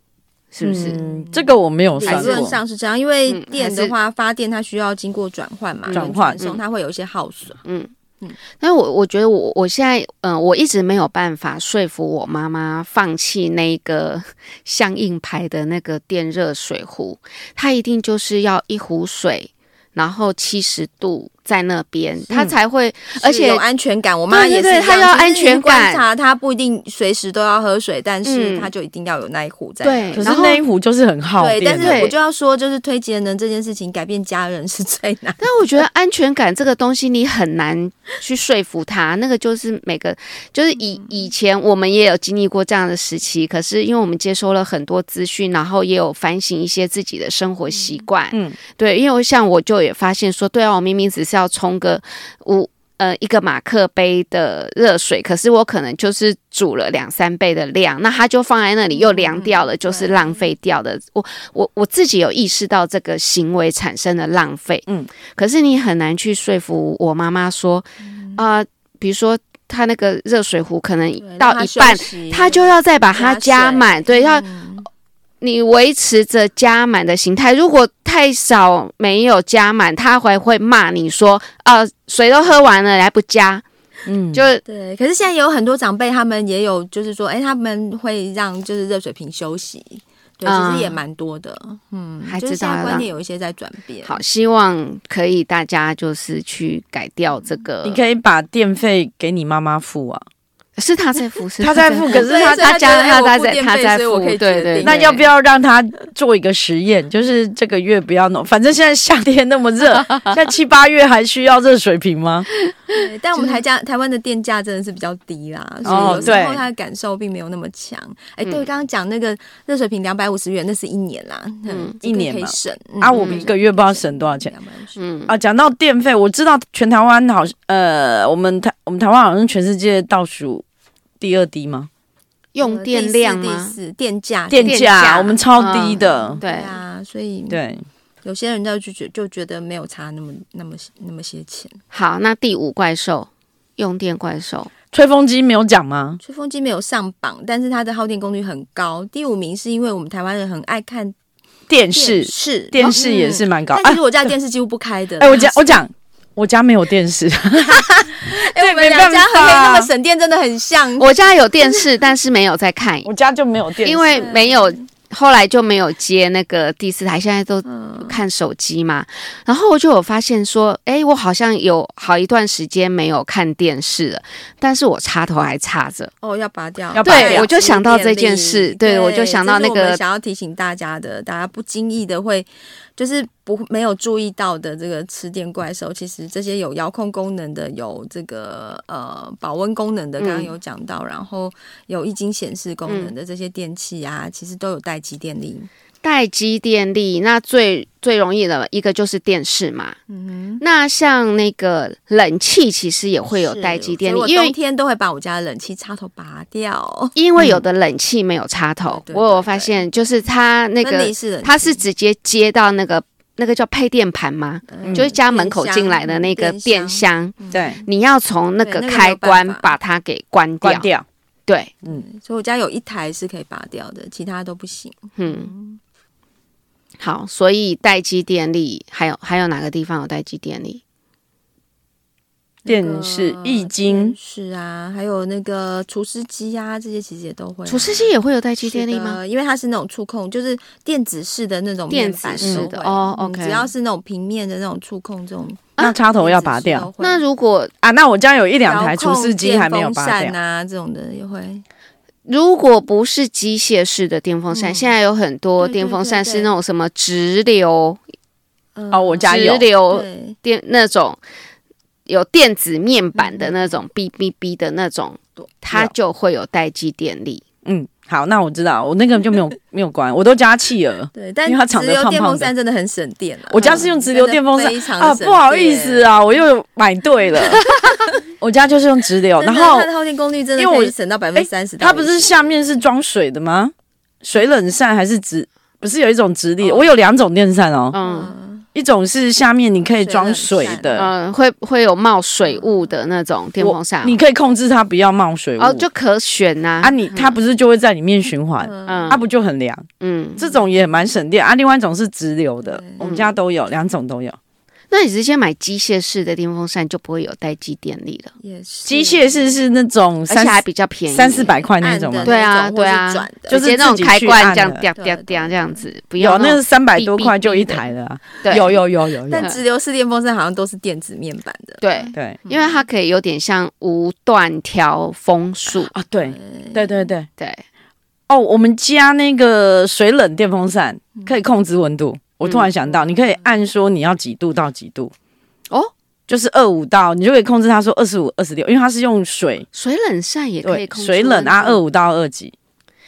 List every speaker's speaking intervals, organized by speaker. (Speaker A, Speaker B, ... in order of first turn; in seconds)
Speaker A: 0.5-1.0, 2.0-2.5, 3.3-3.9, 5.9-6.6, 7.6-7.9, 8.6-23.6, 24.3-26.0, 28.2-28.7, 29.8-30.6, 31.8-32.2, 35.4-74.5, 75.4-83.6, 84.3-84.6, 90.5-91.0, 92.3-93.1, 94.0-98.0, 100.8-105.2, 115.8-116.4, 121.7-122.0, 123.1-123.5, 125.0-125.3, 132.5-133.8, 134.6-136.8, 141.9-144.7, 161.0-163.1, 163.8-176.1, 177.0-180.0, 190.2-190.5, 192.9-193.1, 196.0-200.0, 200.6-204.6, 207.2-220.9, 221.5-221.7, 225.2-225.5, 227.0-230.8, 237.7-239.2, 241.9-243.7, 247.0-247.7, 252.3-258.0, 259.3-261.2, 262.1-267.4, 287.9-288.3, 290.9-294.2, 295.6-297.4, 298.9-299.2, 300.0-300.4, 303.0-303.4, 304.9-308.3, 310.3-311.5, 312.2-317.8, 318.4-318.8, 321.8-325.9, 327.4-327.6, 332.4-332.7, 339.7-341.8
Speaker B: 0.6-2.6, 5.9-6.4, 30.2-32.0, 48.3-48.6, 84.1-84.5, 97.8-100.2, 101.6-102.6, 104.8-112.5, 115.8-116.6, 122.0-124.5, 125.3-130.6, 131.2-131.9, 134.5-136.4, 137.5-137.8, 144.9-146.2, 151.7-154.3, 155.2-159.9, 163.1-164.3, 176.9-177.5, 214.8-215.1, 217.5-217.8, 220.6-221.1, 232.7-234.2, 242.4-242.7, 245.8-246.9, 247.8-250.3, 258.9-259.7, 267.6-272.5, 273.5-277.7, 278.4-279.9, 280.6-288.0, 288.8-291.1, 293.6-295.9, 296.8-304.4, 308.9-312.3, 313.5-314.8, 316.2-319.5, 325.9-327.3, 328.3-335.1, 336.3-339.7, 340.6-342.5
Speaker C: 0.7-7.6, 23.2-30.6, 31.4-35.8, 40.8-41.3, 47.8-48.0, 58.9-60.5, 68.0-68.4, 71.2-74.9, 84.7-94.2, 102.1-105.2, 112.9-125.0, 132.6-137.6, 138.2-141.8, 146.2-151.2, 151.9-155.8, 157.6-161.9, 164.1-164.9, 167.7-168.2, 176.2-195.7, 200.1-200.6, 203.3-207.2, 208.9-209.8, 210.8-211.8, 214.7-217.8, 218.6-219.7, 221.8-225.8, 232.7-247.2, 248.6-251.6, 254.5-254.9, 255.6-256.5, 258.8-260.4, 263.2-263.8, 271.1-276.2, 279.4-282.6, 288.0-288.7, 289.9-291.1, 298.6-299.2, 302.6-303.2, 308.4-309.6, 311.8-313.6, 314.9-315.8, 319.2-322.9, 326.2-327.1, 332.9-333.5